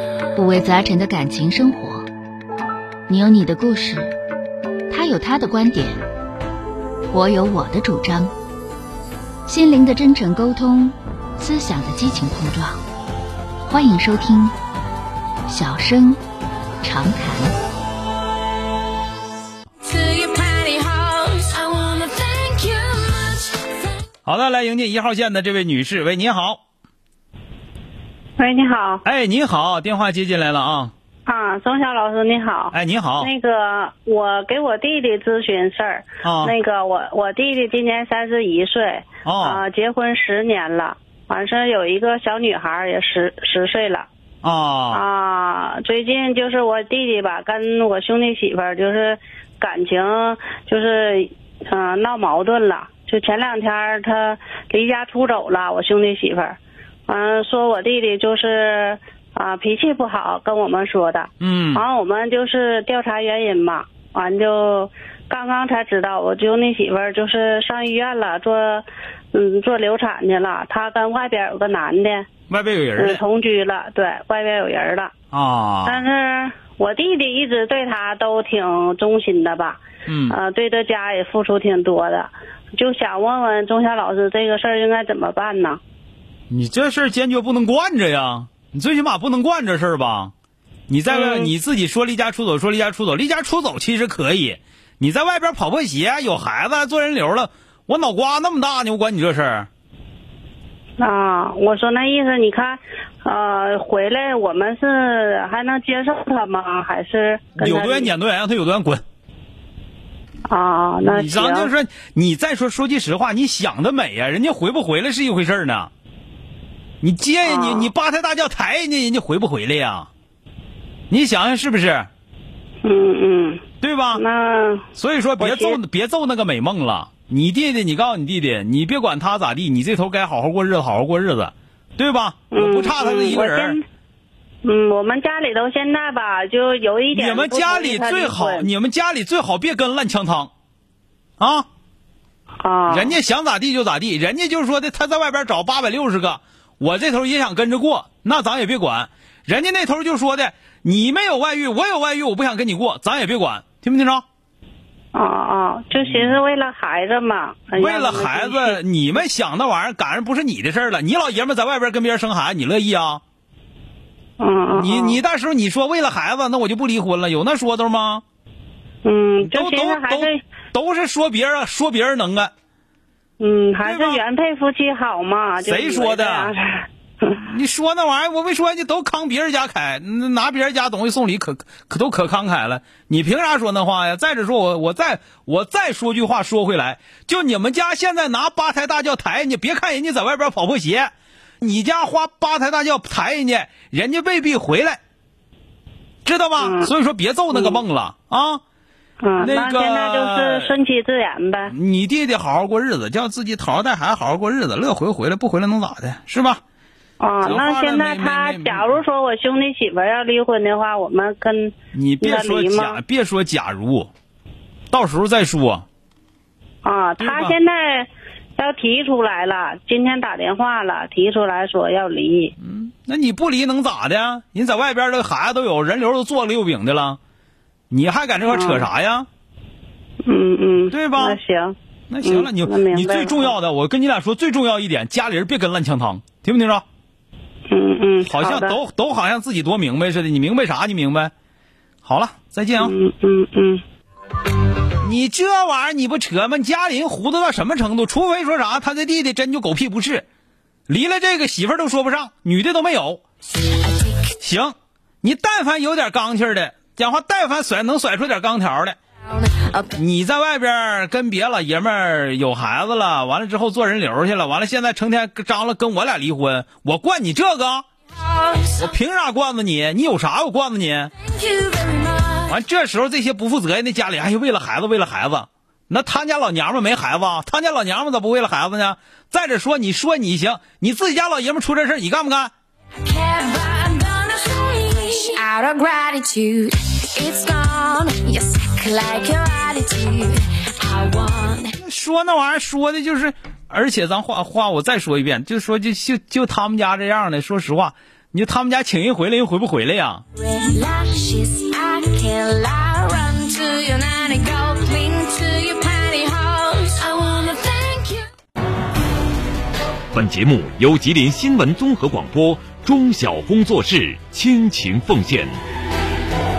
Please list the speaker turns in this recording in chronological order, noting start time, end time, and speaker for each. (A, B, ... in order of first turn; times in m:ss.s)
0:00.4-0:02.1 A
0:03.1-0:04.1 A
0:04.9-0:06.0 A
0:07.1-0:08.3 A
0:09.5-0:12.8 A
0:13.7-0:14.5 A
0:15.5-0:16.2 A
0:16.8-0:17.5 A
0:19.8-0:23.7 B
0:24.3-0:26.6 C
0:28.4-0:29.0 D
0:29.0-0:30.9 C
0:31.3-0:44.1 D
0:32.7-0:33.3 C
0:36.2-0:36.5 C
0:39.2-0:39.6 C
0:44.4-0:45.0 C
0:44.9-1:12.3 D
1:01.4-1:01.8 C
1:12.5-1:13.2 C
1:13.0-1:15.1 D
1:15.3-1:16.0 C
1:15.8-1:25.8 D
1:20.1-1:20.4 C
1:26.5-1:30.3 C
1:30.9-1:39.7 C
1:31.1-1:31.5 D
1:41.0-1:48.1 D
1:47.6-1:49.0 C
1:50.5-1:51.7 D
1:51.0-1:55.9 C
1:57.0-2:00.1 C
1:57.4-1:57.9 D
2:01.1-2:02.1 C
2:02.8-2:03.6 D
2:03.8-2:04.2 C
2:04.1-2:04.9 D
2:05.0-2:13.8 C
2:05.4-2:05.8 D
2:12.5-2:13.8 D
2:14.6-2:18.7 D
2:17.1-2:20.5 C
2:21.4-2:21.7 C
2:22.6-2:23.2 D
2:22.9-2:34.2 C
2:35.1-2:38.8 D
2:36.0-2:36.3 C
2:37.8-2:43.2 C
2:44.4-2:45.2 D
2:44.8-2:48.2 C
2:49.0-2:50.4 D
2:49.4-2:52.5 C
2:53.4-2:57.4 D
2:53.8-2:54.2 C
2:55.6-2:56.5 C
2:57.4-3:15.0 C
3:16.2-3:18.6 C
3:16.6-3:16.9 D
3:17.5-3:17.8 D
3:19.2-3:21.7 D
3:19.4-3:20.7 C
3:21.7-3:26.6 C
3:27.2-3:33.0 D
3:27.4-3:29.0 C
3:31.9-3:34.1 C
3:34.9-3:35.8 C
3:36.8-3:42.5 D
3:37.2-3:37.6 C
3:42.6-3:47.2 C
3:47.9-3:49.3 C
3:48.5-3:48.9 D
3:50.2-3:53.6 D
3:50.9-3:51.4 C
3:52.1-3:56.8 C
3:57.7-3:58.8 D
3:58.3-4:01.3 C
4:02.0-4:02.9 C
4:02.8-4:03.8 D
4:05.0-4:10.2 C
4:10.9-4:13.2 C
4:13.9-4:14.2 B
4:14.4-4:19.0 C
4:19.5-4:20.0 B
4:19.9-4:27.8 C
4:28.4-4:28.7 B
4:28.7-4:31.1 C
4:31.3-4:32.5 B
4:32.5-4:42.5 C
4:43.0-4:51.7 B
4:51.8-5:00.2 C
5:00.6-5:08.3 B
5:10.1-5:15.6 E